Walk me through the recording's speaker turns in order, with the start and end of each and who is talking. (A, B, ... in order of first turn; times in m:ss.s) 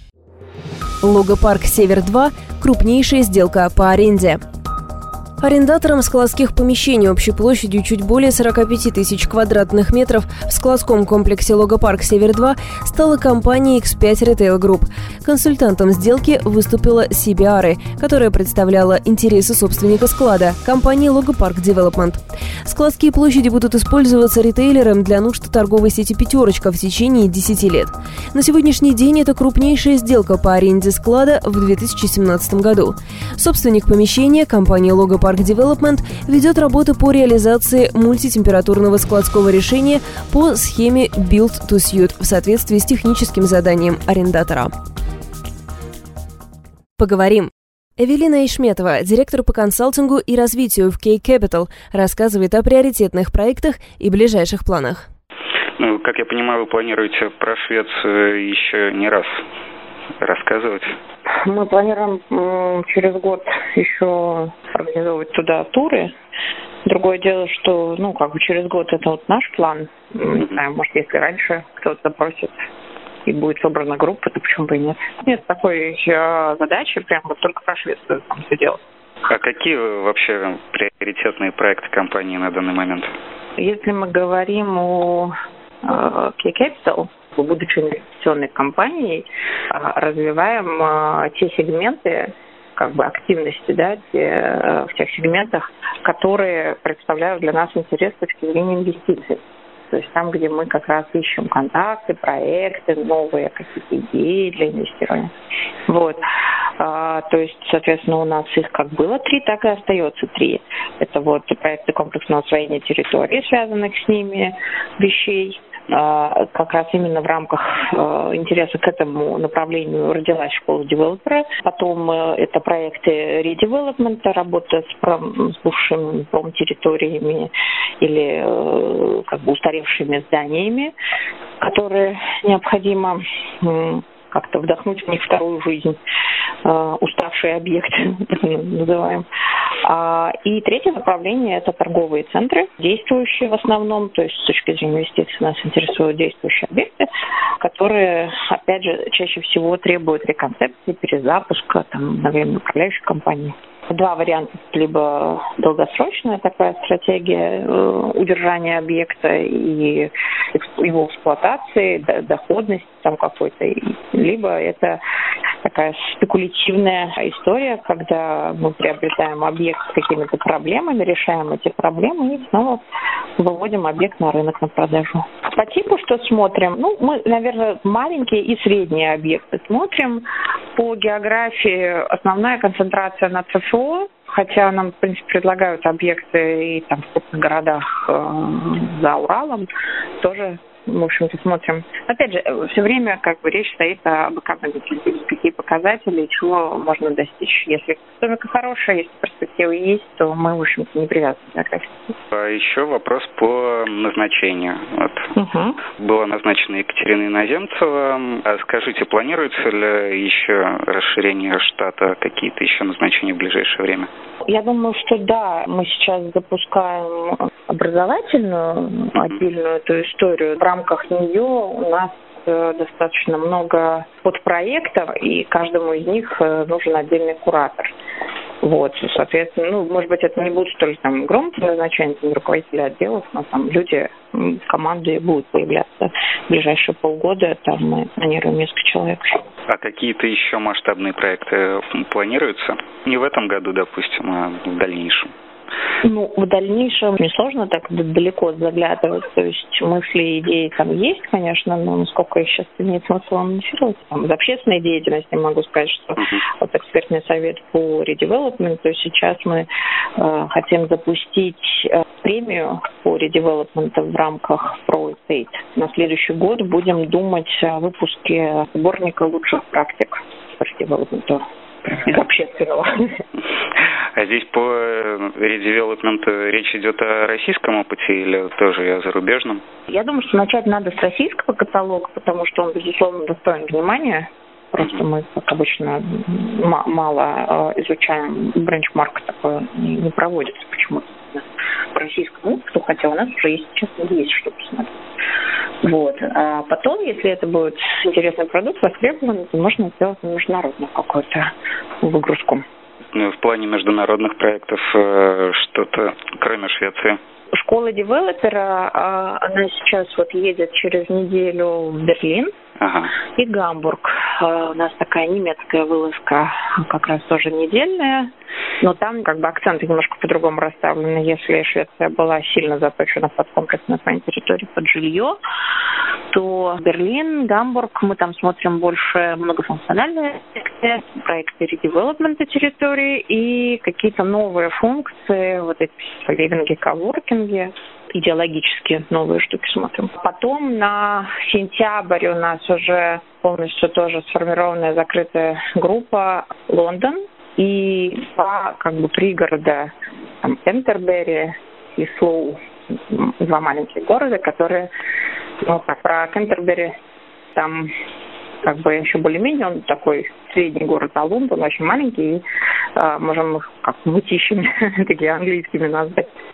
0:01.0-0:04.4 A
0:05.4-0:44.7 A
0:47.0-0:55.1 A
0:55.8-0:59.4 B
1:00.2-1:00.9 B
1:01.3-1:06.1 C
1:06.8-1:12.6 C
1:13.2-1:18.8 C
1:19.3-1:23.1 B
1:23.6-1:25.3 C
1:25.8-1:45.3 C
1:45.9-1:46.2 C
1:46.8-2:10.9 C
2:11.6-2:16.0 C
2:16.6-2:19.2 C
2:19.8-2:27.1 C
2:27.6-2:45.0 C
2:45.6-2:52.8 C
2:53.4-3:09.7 C
3:10.2-3:22.1 C
3:22.3-3:25.3 B
3:25.4-3:25.8 C
3:26.0-3:34.1 B
3:34.4-3:47.9 C
3:48.6-3:59.4 C
3:59.7-4:05.3 B
4:06.0-4:19.7 C
4:20.2-4:33.2 C
4:34.1-4:39.6 B
4:39.9-4:55.0 C
4:55.8-5:01.5 C
5:02.0-5:02.6 C
5:03.1-5:07.2 B
5:07.5-5:12.5 C
5:12.8-5:13.2 B
5:13.3-5:25.4 C
5:26.3-5:49.9 C
5:50.4-5:54.9 C
5:55.6-5:56.9 C
5:57.5-5:57.9 C
5:58.6-6:02.4 C
6:03.0-6:06.3 C